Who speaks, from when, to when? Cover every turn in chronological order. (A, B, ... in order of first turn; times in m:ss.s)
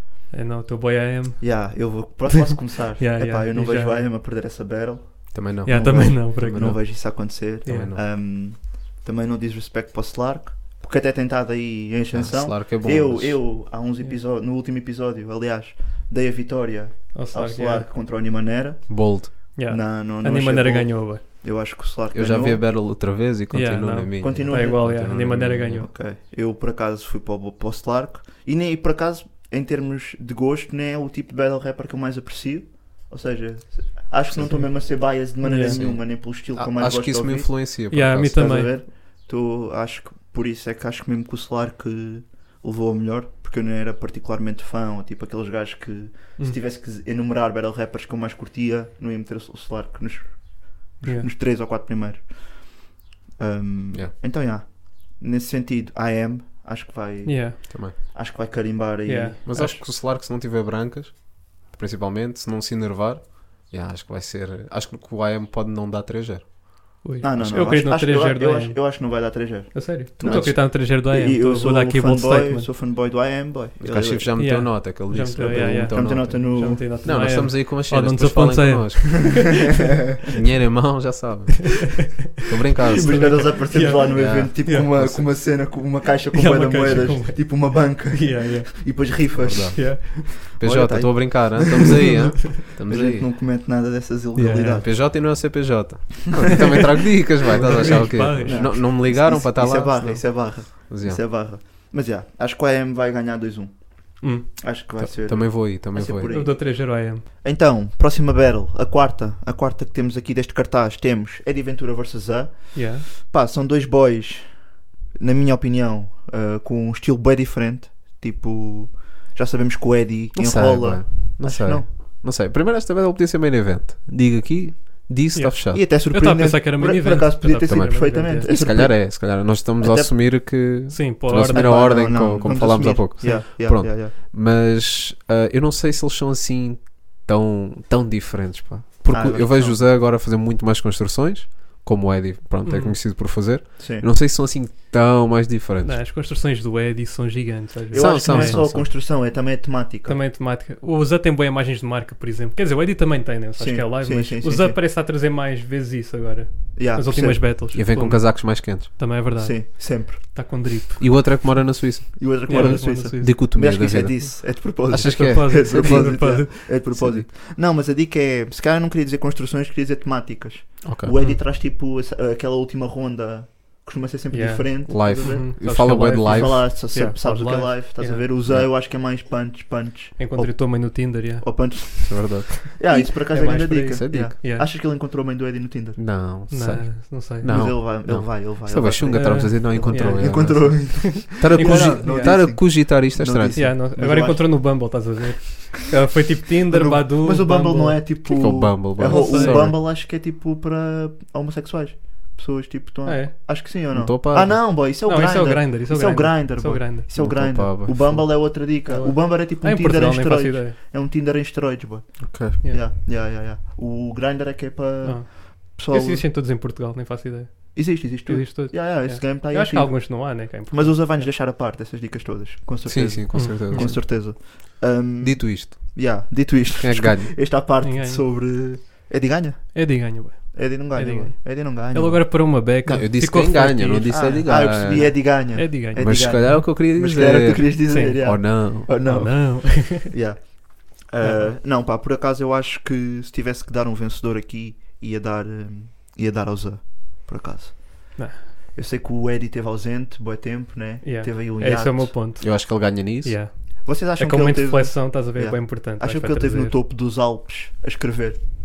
0:00.3-0:01.9 A
0:01.4-0:22.6 B
0:02.4-0:04.0 A
0:05.3-0:06.8 C
0:05.6-0:07.9 A
0:07.6-0:08.0 C
0:12.1-0:13.4 C
0:17.1-0:17.9 A
0:18.9-0:19.3 C
0:19.5-0:21.2 A
0:22.1-0:25.9 C
0:23.5-0:25.9 A
0:24.2-0:25.2 B
0:25.8-0:52.9 B
0:34.3-0:34.6 C
0:34.4-0:35.8 A
0:35.7-0:38.4 C
0:37.9-0:38.8 A
0:51.0-0:51.3 A
0:53.4-0:59.8 B
0:57.2-0:58.2 A
0:57.7-0:57.9 C
0:59.0-0:59.7 A
0:59.4-1:06.6 C
1:07.0-1:12.7 A
1:07.2-1:14.7 B
1:10.2-1:10.6 C
1:13.8-1:19.7 C
1:14.4-1:20.1 A
1:15.4-1:16.8 B
1:20.3-1:25.2 C
1:22.9-1:25.7 A
1:22.9-1:35.1 B
1:26.3-1:30.3 A
1:29.4-1:33.3 C
1:34.4-1:34.8 A
1:34.8-1:41.2 C
1:37.5-1:38.7 A
1:37.6-2:01.9 B
1:44.2-1:44.5 A
1:45.0-1:46.3 C
1:46.3-1:47.2 A
1:52.7-1:53.0 A
2:00.3-2:05.8 C
2:05.3-2:08.5 A
2:05.7-2:10.1 B
2:07.7-2:26.0 C
2:10.9-2:11.7 A
2:11.3-2:14.1 B
2:19.1-2:19.9 B
2:22.6-2:23.0 A
2:23.8-2:24.1 B
2:25.8-2:28.6 A
2:27.9-2:30.2 B
2:27.9-2:28.9 C
2:30.1-2:41.2 A
2:33.6-2:34.8 B
2:36.8-2:38.0 B
2:37.7-2:38.9 C
2:39.2-2:40.4 B
2:41.0-2:47.3 C
2:42.2-3:06.0 B
2:42.4-2:43.6 A
2:45.0-2:46.7 A
2:50.8-2:51.1 C
2:51.1-2:51.4 A
2:54.3-2:58.3 A
2:54.9-2:56.7 C
3:00.2-3:02.0 A
3:02.1-3:02.7 C
3:02.9-3:04.7 A
3:03.9-3:04.3 C
3:06.0-3:13.6 C
3:06.5-3:07.7 A
3:07.4-3:15.1 B
3:09.1-3:12.4 A
3:13.5-3:19.7 A
3:16.7-3:36.2 B
3:18.2-3:19.8 C
3:23.0-3:23.3 A
3:23.9-3:24.6 C
3:25.0-3:27.0 A
3:27.1-3:28.5 C
3:28.8-3:30.8 A
3:32.2-3:32.6 C
3:35.0-3:41.3 A
3:37.7-3:52.2 B
3:42.8-3:44.0 C
3:43.3-3:44.0 A
3:45.2-3:47.4 C
3:47.8-3:48.2 A
3:49.7-3:56.6 A
3:52.8-3:55.3 C
3:54.1-4:12.2 B
3:55.9-3:58.9 C
3:57.9-4:00.1 A
4:01.2-4:01.5 A
4:08.2-4:08.5 A
4:11.0-4:16.8 A
4:12.4-4:13.4 C
4:13.8-4:18.5 B